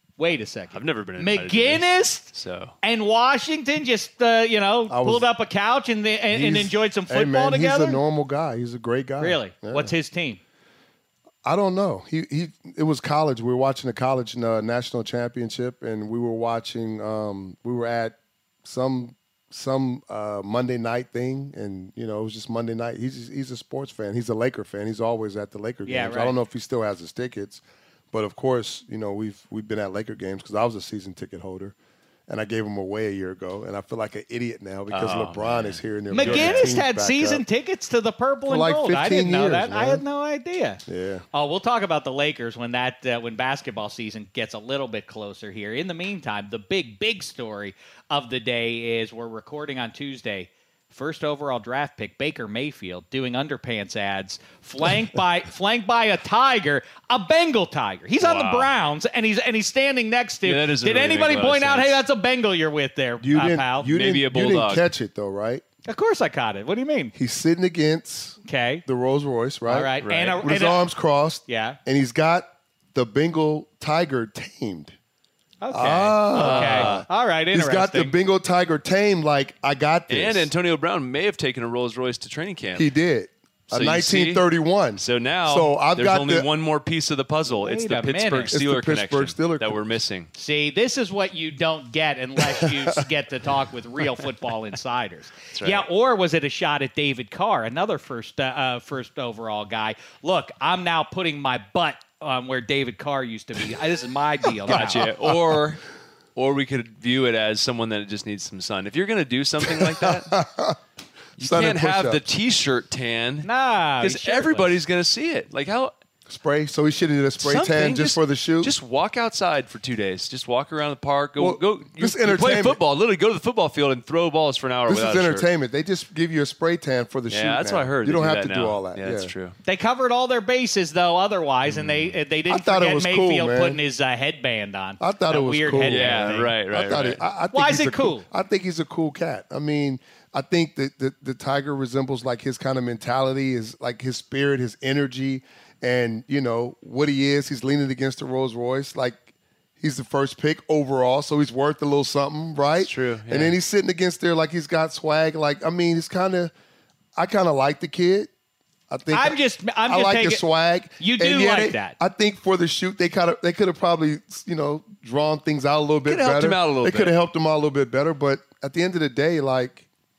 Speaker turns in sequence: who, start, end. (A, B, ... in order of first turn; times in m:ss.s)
0:00.2-0:02.3 A
0:00.7-0:02.8 B
0:02.8-0:08.0 A
0:04.9-0:05.3 C
0:06.3-0:09.9 C
0:09.2-0:10.4 A
0:11.4-0:31.8 C
0:25.8-0:26.3 A
0:32.3-0:37.4 C
0:34.9-0:36.8 B
0:36.1-1:03.9 A
0:38.5-0:40.0 C
0:40.9-0:41.2 C
0:58.2-0:58.7 B
1:00.4-1:02.0 B
1:03.2-1:05.6 C
1:03.8-1:04.9 B
1:05.8-1:07.1 A
1:07.1-1:14.9 C
1:08.4-1:08.8 A
1:09.7-1:10.8 A
1:10.0-1:10.4 B
1:11.5-1:11.8 A
1:15.6-1:18.1 A
1:15.7-1:20.5 C
1:16.3-1:17.0 B
1:20.1-1:22.9 B
1:22.8-1:26.5 C
1:23.7-1:24.4 B
1:25.0-1:30.3 B
1:27.5-1:28.5 A
1:28.5-1:29.8 C
1:30.3-1:45.1 A
1:32.5-1:33.0 C
1:35.5-1:35.9 B
1:44.7-1:45.8 B
1:44.7-1:45.3 C
1:46.4-1:50.4 B
1:49.6-1:50.8 C
1:51.4-1:52.2 C
1:51.4-1:53.5 B
1:53.4-1:54.7 A
1:54.0-1:55.9 B
1:56.3-1:58.7 C
1:57.4-2:05.4 B
2:01.4-2:02.8 C
2:04.9-2:09.3 C
2:07.3-2:09.6 B
2:09.6-2:16.5 A
2:11.7-2:12.2 B
2:12.5-2:13.8 C
2:15.0-2:36.5 C
2:15.8-2:17.2 B
2:17.5-2:18.3 A
2:32.8-2:33.6 B
2:37.2-2:38.3 C
2:38.9-2:49.9 C
2:39.1-2:40.4 A
2:41.0-2:42.0 A
2:46.1-2:47.1 B